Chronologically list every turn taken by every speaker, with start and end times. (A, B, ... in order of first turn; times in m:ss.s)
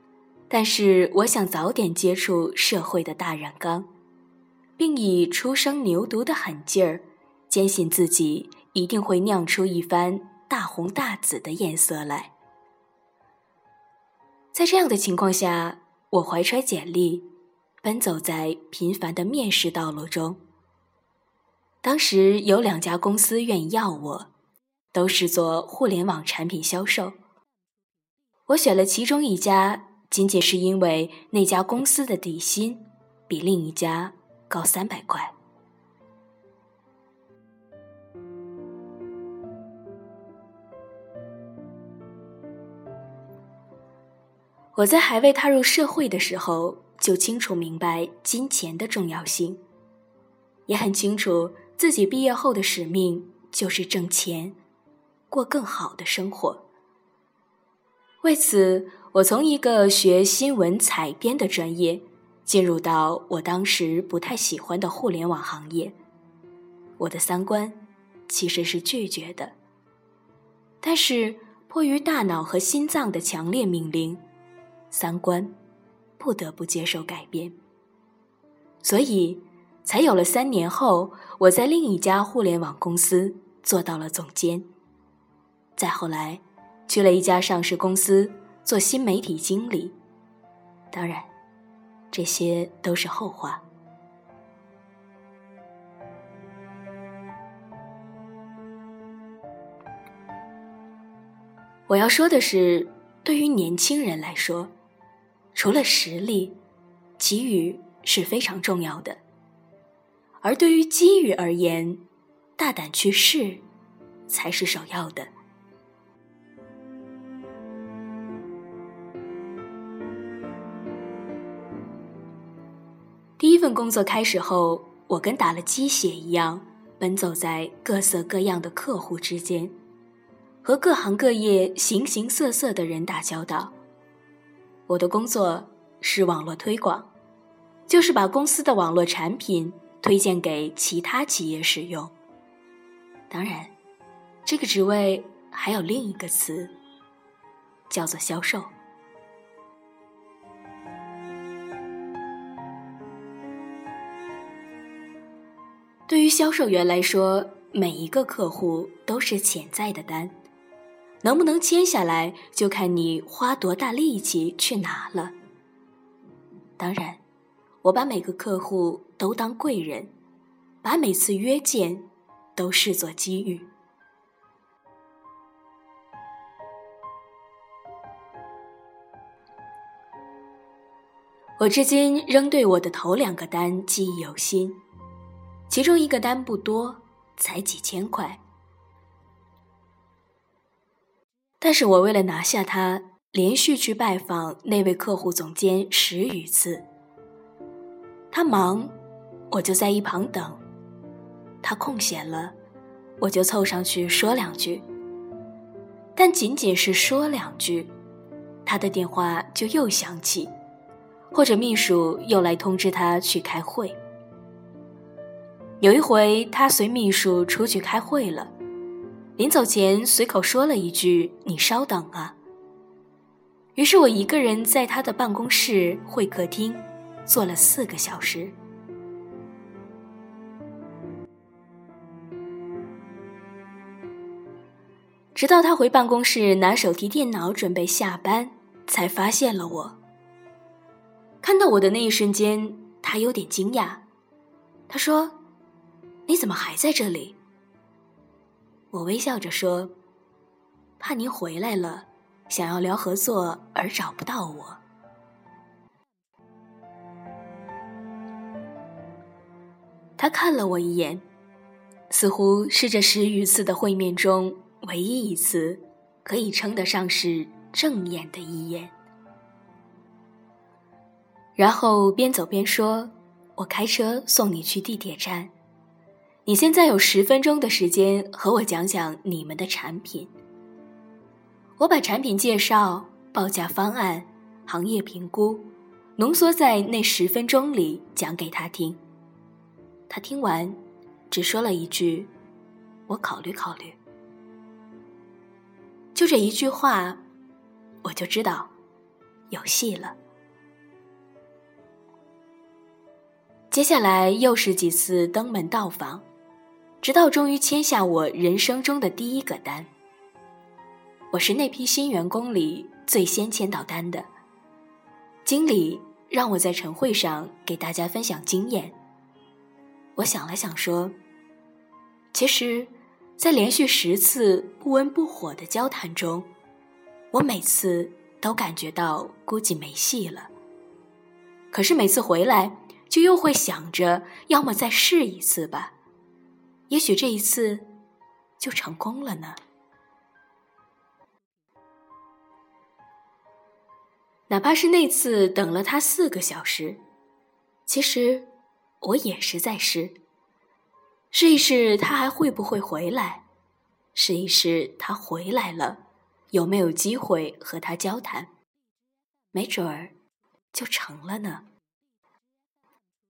0:00.5-0:03.9 A
0:04.8-0:12.3 A
0:14.5-0:17.3 A
0:17.8-0:20.4 A
0:21.8-0:24.3 A
0:24.9-0:27.2 A
0:28.5-0:35.4 A
0:44.7-0:49.6 A
0:50.7-0:54.6 A
0:55.3-0:56.7 A
0:58.2-1:06.0 A
1:07.0-1:09.5 A
1:10.8-1:14.2 A
1:14.9-1:15.6 A
1:16.2-1:17.6 A
1:18.8-1:24.7 A
1:25.8-1:30.0 A
1:30.9-1:31.3 A
1:32.1-1:33.6 A
1:41.9-1:44.7 A
1:45.5-1:46.6 A
1:47.2-1:49.2 A
1:50.4-1:52.0 A
1:52.6-1:53.6 A
1:54.3-1:55.3 A
2:03.4-2:09.8 A
2:10.6-2:13.8 A
2:14.9-2:17.1 A
2:17.9-2:22.1 A
2:23.3-2:23.8 A
2:24.4-2:26.8 A
2:27.9-2:28.7 A
2:36.1-2:40.4 A
2:41.2-2:45.4 A
2:46.8-2:47.2 A
2:47.8-2:50.1 A
2:50.8-2:53.7 A
3:01.6-3:04.8 A
3:05.7-3:08.4 A
3:11.6-3:16.9 A
3:18.3-3:19.0 A
3:19.5-3:20.6 A
3:21.6-3:22.6 A
3:23.2-3:24.9 A
3:26.2-3:27.9 A
3:28.6-3:30.5 A
3:31.3-3:34.0 A
3:35.8-3:38.5 A
3:39.4-3:42.4 A
3:43.8-3:48.6 A
3:55.4-4:00.0 A
4:01.4-4:04.0 A
4:04.9-4:05.4 A
4:06.3-4:07.4 A
4:08.9-4:09.9 A
4:11.0-4:14.8 A
4:20.2-4:21.2 A
4:22.1-4:28.9 A
4:31.6-4:35.5 A
4:36.5-4:40.3 A
4:41.8-4:49.0 A
4:50.1-4:52.3 A
4:53.1-4:54.0 A
4:56.1-4:57.2 A
4:58.0-4:58.7 A
4:59.5-5:00.2 A
5:03.7-5:06.3 A
5:07.0-5:09.9 A
5:11.3-5:14.3 A
5:15.4-5:19.0 A
5:20.2-5:21.2 A
5:22.3-5:26.5 A
5:27.3-5:30.5 A
5:31.7-5:36.0 A
5:36.9-5:37.9 A
5:38.6-5:39.6 A
5:44.5-5:47.0 A
5:47.9-5:48.5 A
5:49.0-5:50.2 A
5:51.3-5:53.5 A
5:54.1-5:58.5 A
5:59.5-6:00.2 A
6:00.7-6:01.7 A